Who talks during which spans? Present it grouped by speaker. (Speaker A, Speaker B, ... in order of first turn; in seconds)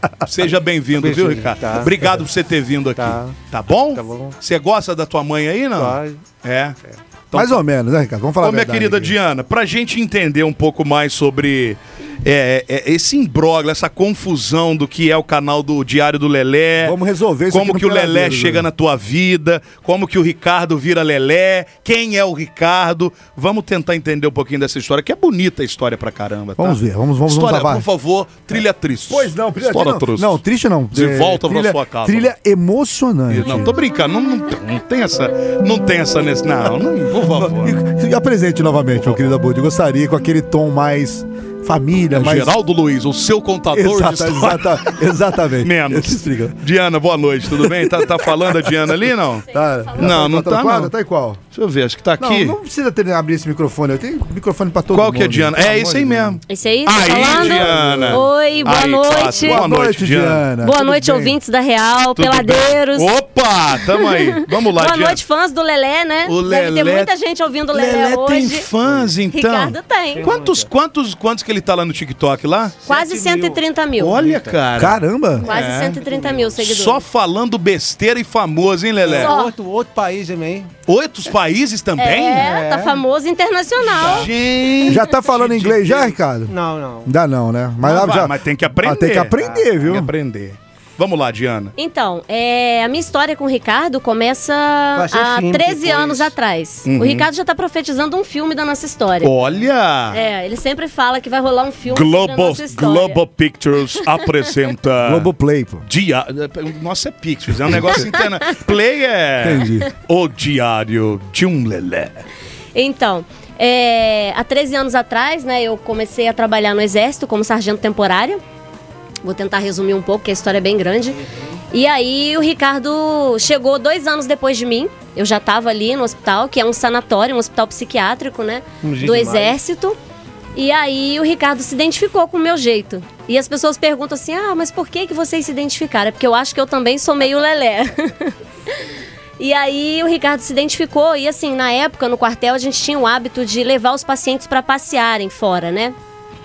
Speaker A: 0.2-6.8, 7.3-7.6, 8.4-16.9, 17.5-30.4, 30.9-32.3, 33.3-37.8, 39.0-39.3, 42.1-45.0, 45.6-49.5, 50.0-50.9, 51.5-52.5, 54.9-60.4, 62.1-65.2, 66.2-67.1, 67.7-72.8, 74.0-76.0, 76.6-79.3, 80.9-82.5, 83.9-86.0, 87.8-91.7, 96.9-97.3, 99.2-100.2, 101.9-105.3, 105.8-112.2
Speaker B: 0.9-2.2, 3.0-3.4, 3.9-4.3, 5.7-6.2, 70.1-70.7, 72.8-74.6, 75.5-76.5, 79.0-80.7, 82.3-83.0, 84.0-84.3, 86.5-87.1, 89.4-89.7, 94.9-96.3, 128.8-129.6
Speaker C: 7.3-9.2, 16.8-18.7, 26.6-27.8, 29.1-33.7, 37.1-42.5, 43.7-46.6, 47.5-49.0, 49.5-51.4, 52.2-56.4, 57.0-58.3, 59.4-61.4, 74.8-75.5, 84.8-86.5, 87.0-90.1, 105.0-105.8, 107.7-108.0, 109.4-109.9
Speaker D: 56.5-59.6, 60.6-63.1, 63.9-68.7, 69.3-70.3, 72.9-74.2, 75.4-77.0, 79.1-79.5, 82.0-84.3, 91.8-99.3, 100.1-103.2, 112.7-118.4, 119.2-130.0, 130.5-138.8, 139.4-145.9